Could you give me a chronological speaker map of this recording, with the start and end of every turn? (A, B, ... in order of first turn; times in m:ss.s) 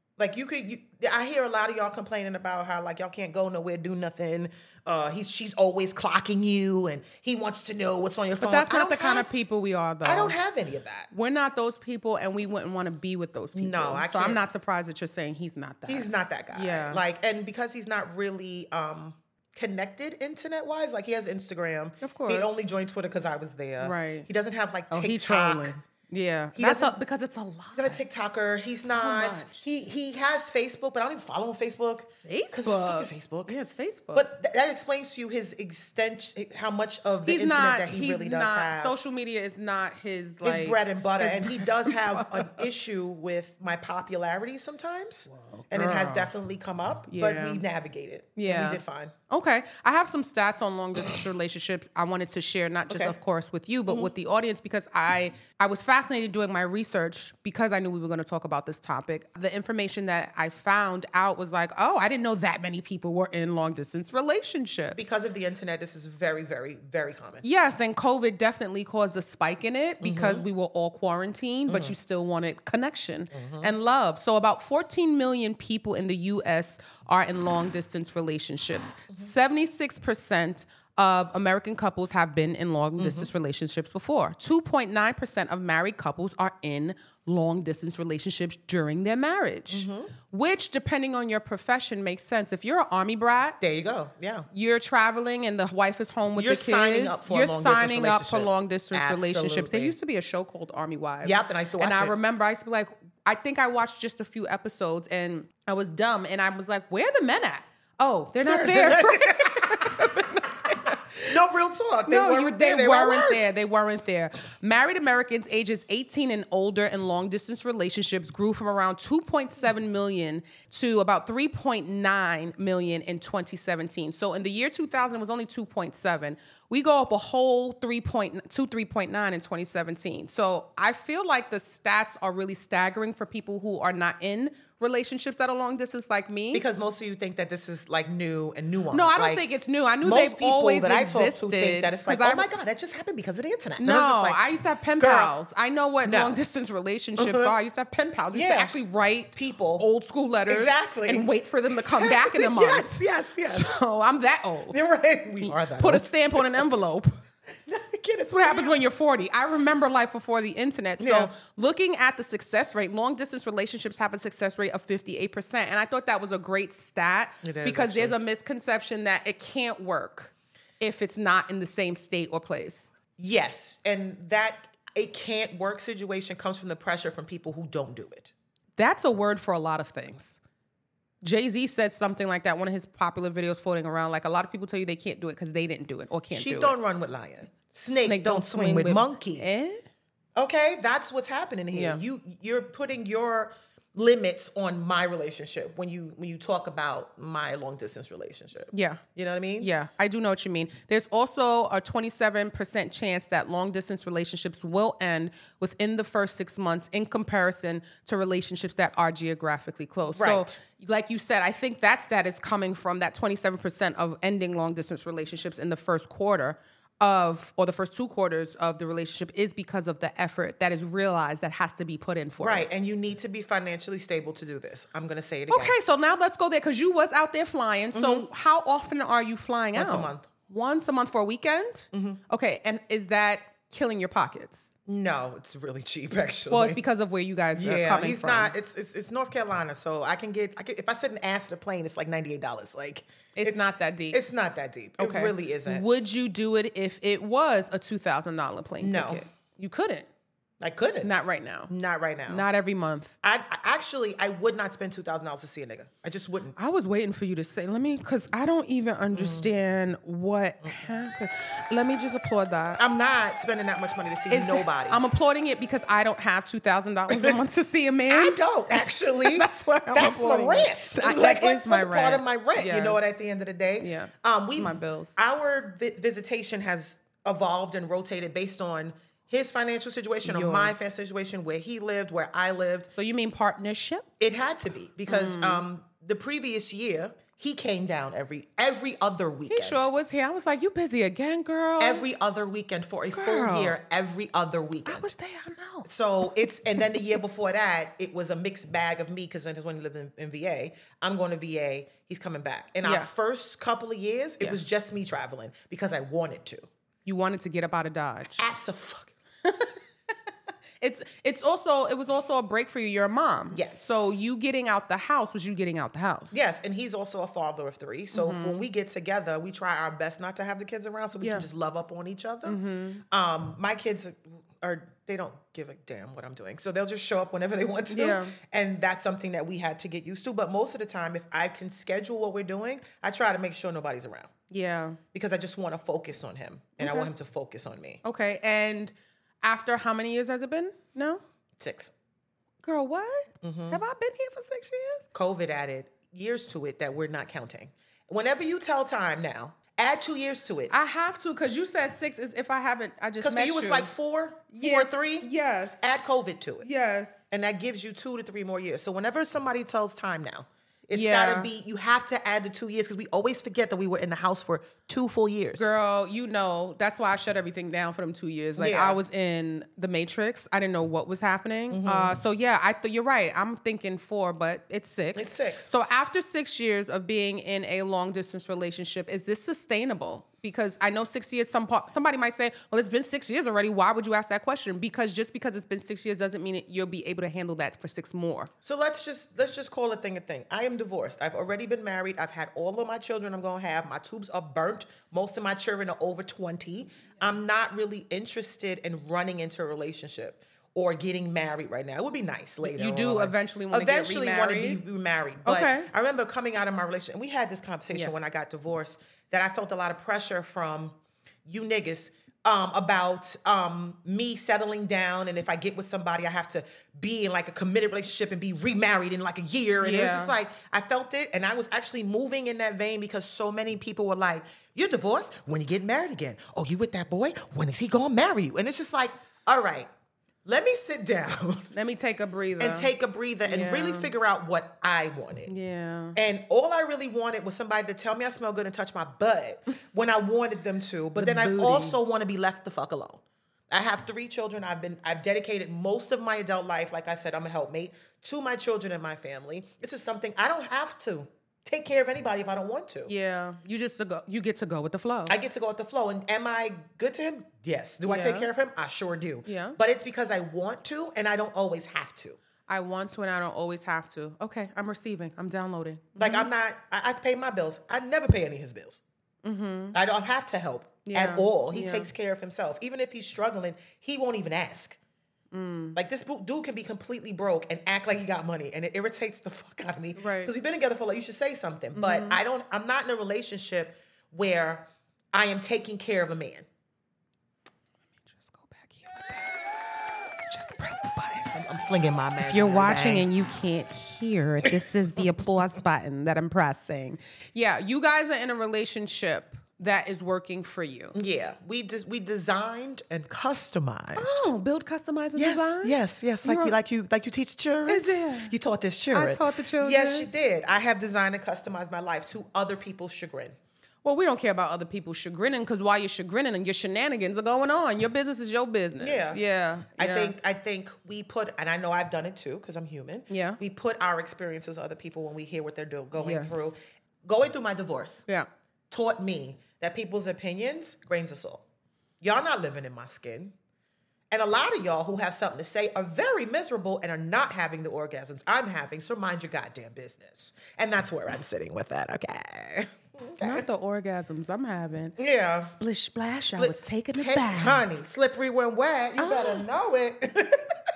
0:00.2-0:09.3 A
0:08.4-0:10.4 B
0:10.0-0:11.1 A
0:11.1-0:17.0 B
0:13.5-0:14.4 A
0:15.9-0:25.7 A
0:22.0-0:22.7 B
0:23.8-0:24.3 B
0:24.9-0:28.0 B
0:26.5-0:26.9 A
0:27.8-0:33.5 A
0:28.8-0:29.6 B
0:32.2-0:34.3 B
0:34.1-0:39.0 A
0:37.2-0:42.6 B
0:40.4-0:49.1 A
0:45.3-0:46.3 B
0:47.1-0:47.6 B
0:48.4-1:05.1 B
0:52.9-0:53.2 A
1:04.9-1:07.4 A
1:07.4-1:33.6 B
1:10.0-1:10.4 A
1:11.7-1:11.9 A
1:13.3-1:13.7 A
1:23.0-1:23.3 A
1:29.7-1:30.1 A
1:33.6-1:34.5 A
1:34.5-1:51.0 B
1:36.3-1:39.9 A
1:41.2-1:42.2 A
1:48.4-1:50.0 A
1:50.6-1:53.4 A
1:52.1-2:16.6 B
2:16.5-2:19.4 A
2:18.9-2:22.5 B
2:20.0-2:24.4 A
2:23.8-2:34.9 B
2:25.0-2:25.3 A
2:26.0-2:26.4 A
2:27.2-2:27.5 A
2:28.3-2:28.7 A
2:29.3-2:29.8 A
2:30.5-2:33.8 A
2:34.7-2:36.6 A
2:35.4-2:37.2 B
2:37.7-2:38.7 A
2:38.3-2:52.9 B
2:41.0-2:41.3 A
2:47.4-2:48.2 A
2:53.2-2:58.3 A
2:58.8-3:00.4 B
3:01.2-3:06.7 B
3:06.3-3:09.4 A
3:07.9-3:09.8 B
3:10.4-3:19.7 A
3:11.7-3:12.0 B
3:18.7-3:19.0 B
3:19.6-3:42.7 B
3:30.1-3:30.6 A
3:42.4-3:45.8 A
3:45.5-3:54.7 B
3:47.9-3:48.2 A
3:49.7-3:50.3 A
3:51.9-3:52.2 A
3:54.9-3:56.8 A
3:56.5-3:58.5 B
3:57.5-4:05.8 A
4:03.4-4:04.2 B
4:05.0-4:10.1 B
4:08.8-4:09.2 A
4:10.6-4:11.1 A
4:11.0-4:11.7 B
4:11.7-4:12.4 A
4:12.3-4:13.1 B
4:13.2-4:16.6 A
4:16.6-4:22.8 B
4:19.1-4:19.5 A
4:22.8-4:25.0 A
4:24.3-4:33.2 B
4:27.1-4:27.4 A
4:28.1-4:42.9 A
4:33.8-4:35.2 B
4:40.2-4:40.8 B
4:42.9-4:44.1 B
4:44.2-4:49.9 A
4:45.1-4:45.6 B
4:49.5-4:52.0 B
4:51.8-4:55.1 A
4:53.1-4:53.8 B
4:54.8-4:55.9 B
4:55.8-5:06.6 A
5:02.8-5:03.1 B
5:07.0-5:08.4 B
5:08.4-5:09.1 A
5:09.4-5:09.7 B
5:10.8-5:16.4 B
5:13.5-5:14.1 A
5:16.3-5:22.6 A
5:18.1-5:18.6 B
5:22.4-5:23.0 B
5:23.1-5:34.3 A
5:27.9-5:28.3 B
5:34.5-5:35.0 B
5:35.1-5:38.0 A
5:36.8-5:37.1 B
5:38.0-5:41.2 B
5:41.6-5:41.9 A
5:42.6-5:45.0 B
5:43.4-5:43.8 A
5:45.1-5:50.7 A
5:50.7-5:53.9 B
5:53.2-5:55.3 A
5:54.5-5:55.9 B
5:55.8-5:56.7 A
5:56.6-5:57.2 B
5:57.3-6:05.7 A
6:00.9-6:01.5 B
6:05.6-6:28.5 B
6:08.6-6:09.0 A
6:11.7-6:12.2 A
6:15.1-6:15.7 A
6:28.6-7:09.9 A
6:42.6-6:44.8 B
6:45.4-6:45.9 B
6:47.9-6:48.2 B
6:59.8-7:00.3 B
7:10.4-7:11.7 A
7:11.7-7:12.9 B
7:12.6-7:15.5 A
7:13.4-7:14.1 B
7:15.5-7:16.2 B
7:16.1-7:33.1 A
7:21.2-7:22.0 B
7:33.1-7:35.4 B
7:35.3-7:42.4 A
7:38.0-7:38.5 B
7:39.4-7:39.8 B
7:42.7-7:46.5 B
7:46.2-7:49.0 A
7:49.4-7:50.0 B
7:49.9-7:55.0 A
7:51.0-7:52.1 B
7:55.5-7:56.0 B
7:55.9-8:06.6 A
8:00.2-8:00.5 B
8:01.9-8:02.4 B
8:08.3-8:09.7 B
8:10.4-8:11.5 B
8:11.5-8:13.3 A
8:12.4-8:21.1 B
8:21.1-8:24.5 A
8:24.2-8:26.7 B
8:25.4-8:33.5 A
8:27.9-8:28.5 B
8:29.1-8:30.3 B
8:34.0-8:40.3 B
8:39.0-8:39.4 A
8:40.0-8:48.2 A
8:43.3-8:43.6 B
8:46.2-8:46.7 B
8:48.9-8:51.6 A
8:52.2-8:53.5 A
8:54.3-9:03.6 A
9:03.4-9:07.8 B
9:05.2-9:05.7 A
9:06.5-9:10.7 A
9:09.2-9:09.6 B